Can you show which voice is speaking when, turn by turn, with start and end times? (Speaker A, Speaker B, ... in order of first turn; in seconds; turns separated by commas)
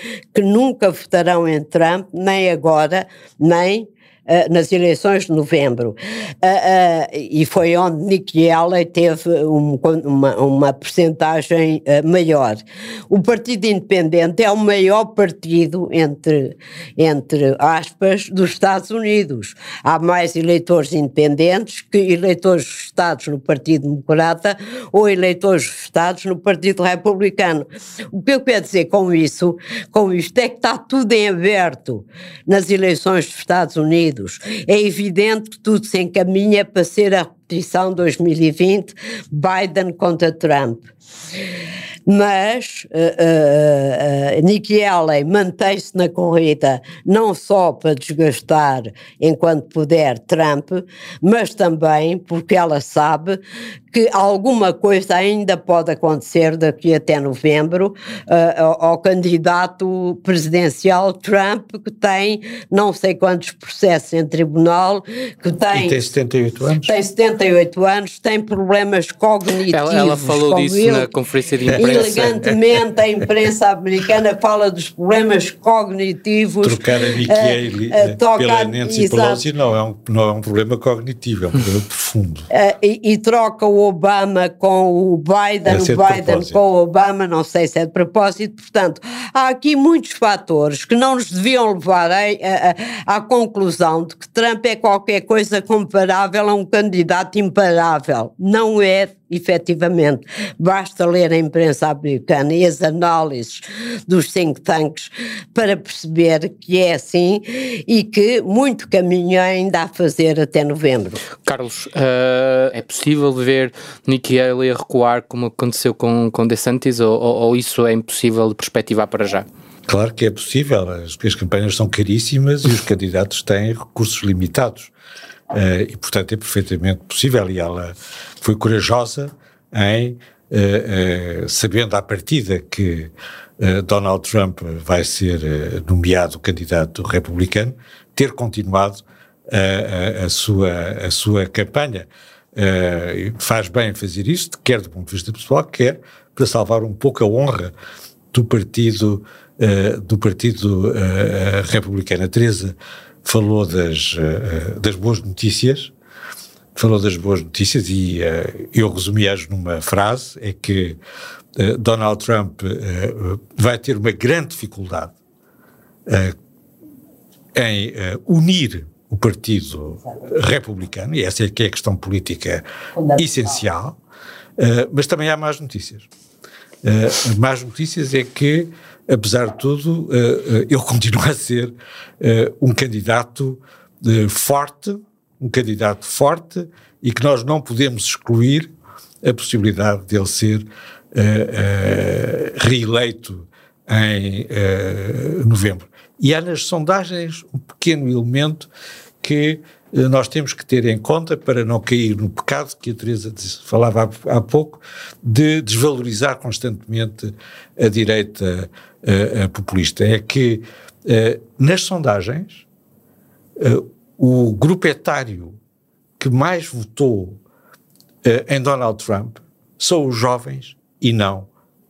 Speaker A: 0.3-40.9, Speaker A: 42.1-53.4, Speaker A: 53.9-66.1, Speaker B: 65.7-66.9, Speaker A: 66.8-71.1, Speaker C: 69.7-72.3, Speaker A: 71.7-79.4, Speaker B: 71.8-72.5, Speaker B: 76.6-82.5, Speaker A: 82.5-111.2, Speaker B: 85.7-86.6, Speaker C: 111.5-119.5, Speaker B: 119.9-124.9, Speaker B: 125.5-147.7, Speaker B: 148.3-155.9, Speaker B: 156.8-161.0, Speaker B: 161.6-165.1, Speaker B: 166.1-166.3, Speaker B: 167.5-173.9, Speaker B: 174.6-176.1, Speaker B: 176.8-188.7, Speaker B: 189.2-198.7, Speaker B: 199.2-212.7, Speaker B: 213.6-215.6, Speaker B: 216.2-217.4, Speaker B: 218.2-221.5